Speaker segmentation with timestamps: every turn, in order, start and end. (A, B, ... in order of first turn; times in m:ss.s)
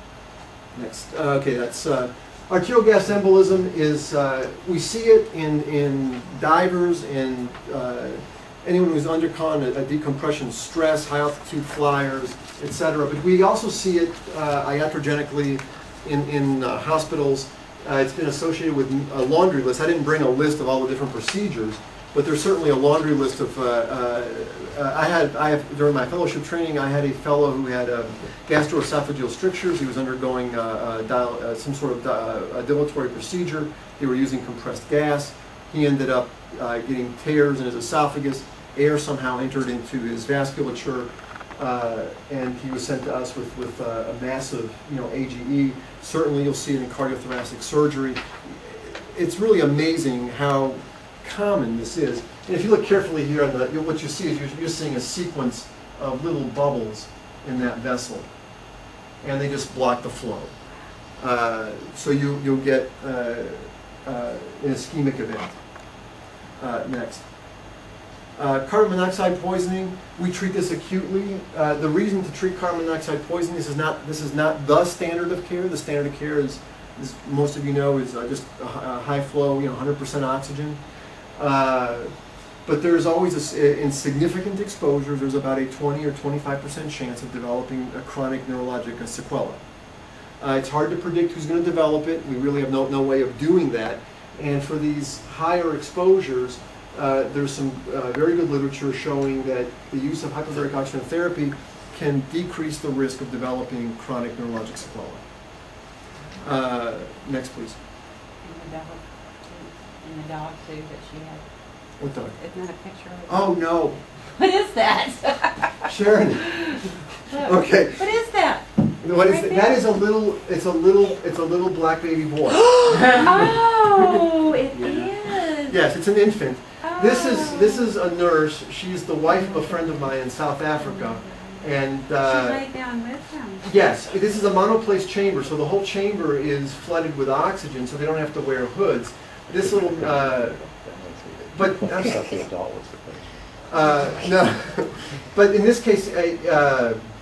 0:00.7-0:58.3 A
0:59.2-1:00.5 A
1:01.2-1:05.6 A
1:06.6-1:07.2 A
1:08.4-1:20.8 A
1:21.4-1:22.1 A
1:22.6-1:29.6 A
1:30.4-1:45.2 A
1:46.4-1:47.8 A
1:48.4-1:51.4 B
1:52.0-1:52.4 A
1:52.4-1:53.7 B
1:53.3-1:54.0 A
1:54.4-1:55.9 B
1:55.9-1:56.7 A
1:56.5-1:59.9 B
1:57.4-1:58.1 A
1:59.0-2:03.6 A
2:02.6-2:05.8 B
2:04.7-2:05.1 A
2:05.6-2:12.6 A
2:06.8-2:07.9 B
2:09.4-2:09.6 B
2:10.8-2:11.6 B
2:12.2-2:13.6 B
2:13.6-2:20.6 A
2:19.5-2:24.4 C
2:21.5-2:22.3 A
2:23.7-2:27.0 A